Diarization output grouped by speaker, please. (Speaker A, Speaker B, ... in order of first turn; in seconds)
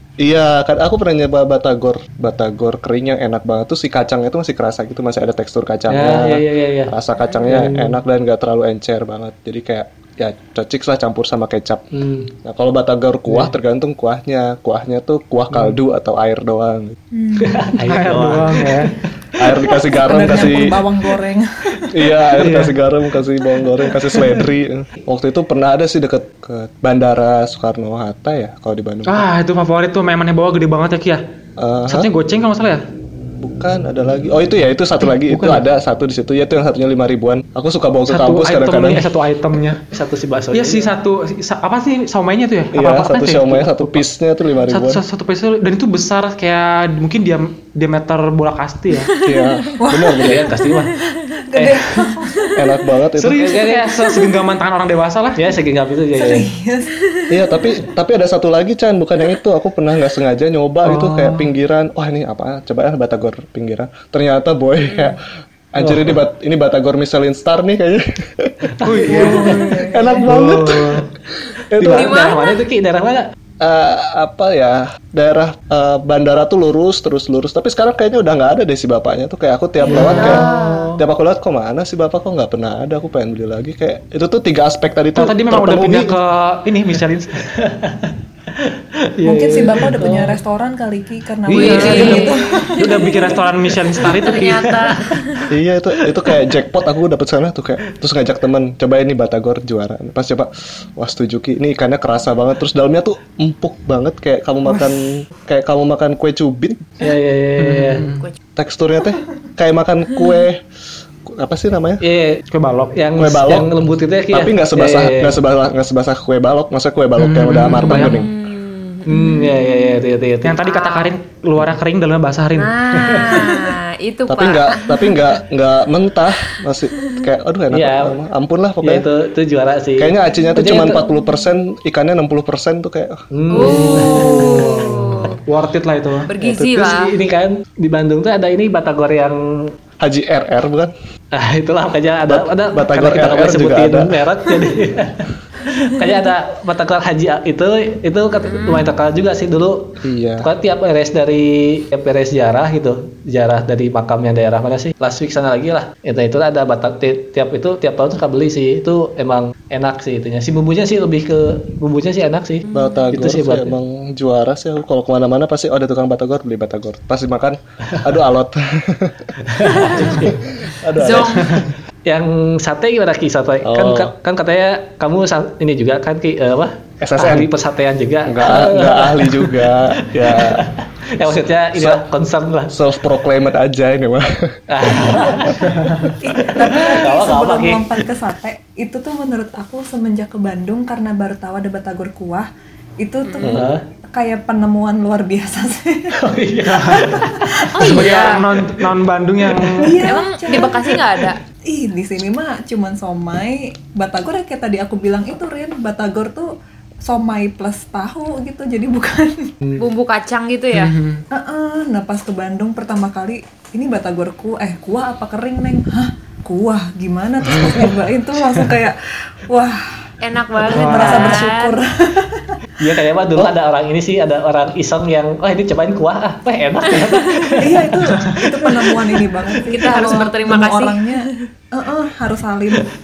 Speaker A: 0.2-11.9, 12.4-17.0, 19.4-20.8, 21.9-29.3, 31.6-32.1, 33.4-39.1, 42.7-45.0, 49.2-50.5, 52.5-53.5, 57.3-65.2, 65.7-71.0, 71.7-72.2, 73.6-80.5, 81.0-86.1, 95.5-106.9, 108.5-110.6, 111.2-112.0, 113.2-113.7, 114.3-118.3, 124.3-129.1, 130.0-134.7, 136.4-136.7, 140.0-140.9, 142.2-144.2, 150.0-150.5, 162.7-169.3, 170.2-171.5, 173.6-174.1, 177.0-177.5, 178.2-180.6, 181.2-182.0, 182.7-184.6, 193.4-193.7, 217.5-217.7
Speaker B: 5.9-6.9, 7.5-8.0, 11.9-12.3, 17.4-19.9, 39.7-40.9, 50.2-52.1, 53.4-54.2, 55.4-56.5, 65.8-66.2, 68.8-69.7, 71.8-73.3, 79.8-81.0, 87.4-90.4, 91.6-92.2, 93.7-95.5, 96.0-96.5, 107.0-108.0, 112.0-115.4, 119.0-120.6, 122.9-123.6, 127.7-128.2, 128.8-131.0, 133.3-135.3, 136.5-139.7, 141.3-163.7, 169.4-170.5, 172.0-182.7, 184.7-187.9, 193.4-193.8, 196.1-198.8, 199.5-199.8, 222.8-228.8
Speaker C: 17.1-17.9, 19.7-22.3, 49.8-50.4, 51.4-52.6, 56.1-57.6, 69.0-70.3, 89.2-93.4, 185.1-185.5, 186.2-192.5, 193.0-198.0, 199.8-206.5, 207.0-209.6, 211.3-219.9, 220.6-222.5, 227.6-232.9
Speaker D: 17.9-18.9, 22.4-22.8, 29.1-31.2, 31.9-32.8, 35.0-35.6, 38.1-39.8, 40.5-44.0, 44.7-49.1, 53.1-55.6, 60.8-61.5, 68.8-71.0, 80.0-80.4, 85.1-87.5, 91.5-94.8, 107.6-108.2, 112.5-113.0, 117.2-118.2, 120.4-122.8, 135.4-136.3, 197.8-200.0, 210.7-211.2, 220.7-221.4
Speaker E: 48.9-49.8, 50.8-51.4, 52.4-52.6, 64.8-65.2, 71.8-72.6, 79.8-80.9, 91.5-93.0, 94.0-95.5, 118.0-120.0, 120.6-121.1, 122.5-125.3, 126.9-127.2, 133.5-135.4, 136.3-137.1, 148.4-148.9, 162.7-163.1, 169.7-170.2, 170.9-171.7, 193.2-193.6, 197.7-198.5, 200.0-201.4, 209.8-210.9, 220.2-221.8, 226.9-227.6, 229.7-231.4